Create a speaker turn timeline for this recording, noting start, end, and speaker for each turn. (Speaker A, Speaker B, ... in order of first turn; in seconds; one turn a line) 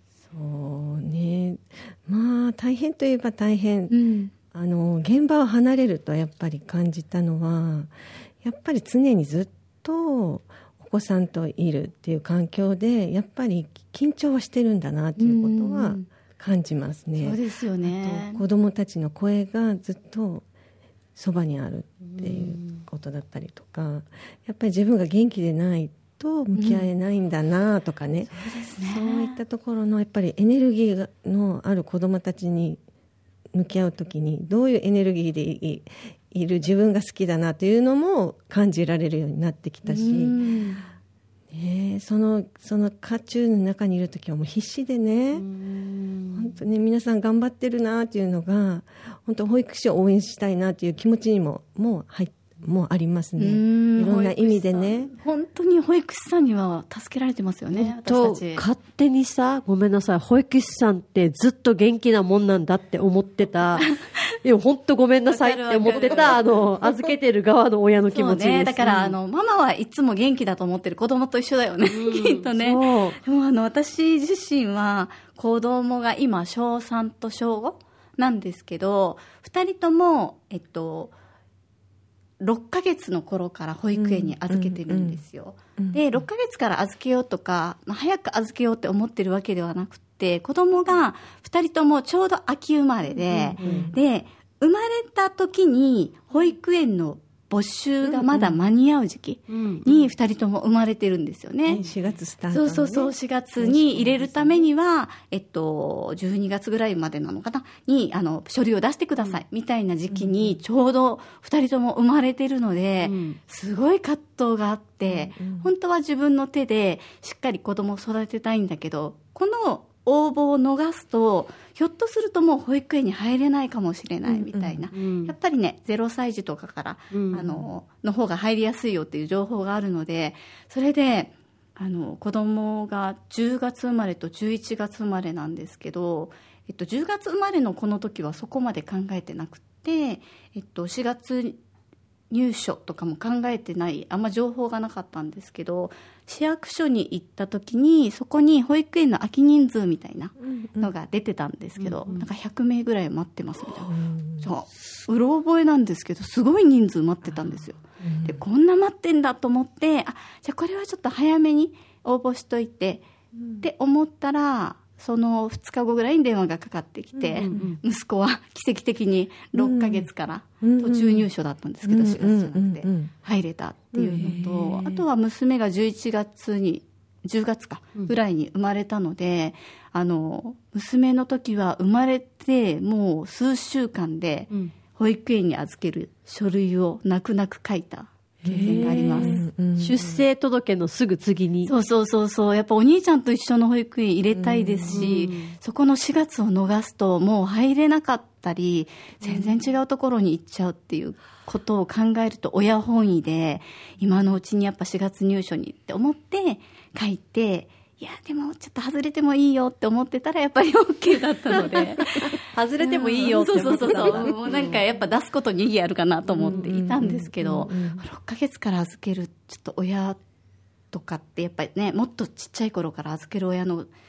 Speaker A: 0.2-4.0
Speaker B: 3.9-4.3
Speaker A: 4.5-20.4
Speaker B: 15.2-16.1
Speaker B: 17.2-18.4
Speaker A: 21.1-32.8
Speaker C: 22.0-22.8
Speaker B: 26.6-26.9
Speaker B: 28.3-29.4
Speaker A: 33.5-40.5
Speaker B: 39.8-40.8
Speaker A: 41.5-45.5
Speaker C: 45.4-46.5
Speaker A: 46.3-55.1
Speaker B: 53.4-58.6
Speaker C: 57.7-63.9
Speaker C: 64.4-69.2
Speaker B: 65.2-67.1
Speaker B: 68.1-81.1
Speaker C: 71.9-73.2
Speaker B: 82.4-101.8
Speaker A: 83.9-85.2
Speaker A: 85.8-86.2
Speaker A: 93.1-94.0
Speaker C: 93.6-93.9
Speaker A: 98.0-98.5
Speaker C: 99.5-100.1
Speaker A: 101.7-104.7
Speaker B: 102.5-141.6
Speaker A: 110.1-110.6
Speaker C: 113.0-113.4
Speaker A: 115.0-115.7
Speaker A: 124.2-124.8
Speaker C: 124.9-125.3
Speaker C: 127.1-127.6
Speaker B: 142.3-163.0
Speaker A: 150.4-150.9
Speaker C: 151.8-152.2
Speaker A: 153.8-154.5
Speaker A: 157.2-158.4
Speaker A: 163.4-163.6
Speaker B: 163.6-189.4
Speaker A: 167.2-167.7
Speaker C: 167.4-167.8
Speaker A: 169.5-170.1
Speaker A: 170.6-171.3
Speaker A: 171.8-173.1
Speaker A: 173.9-175.0
Speaker C: 174.1-174.6
Speaker A: 188.4-190.2
Speaker C: 188.4-191.7
Speaker B: 191.7-220.2
Speaker A: 194.3-195.1
Speaker C: 194.9-195.6
Speaker C: 212.5-214.8
Speaker C: 216.3-216.7
Speaker A: 216.4-218.0
Speaker B: 220.9-223.9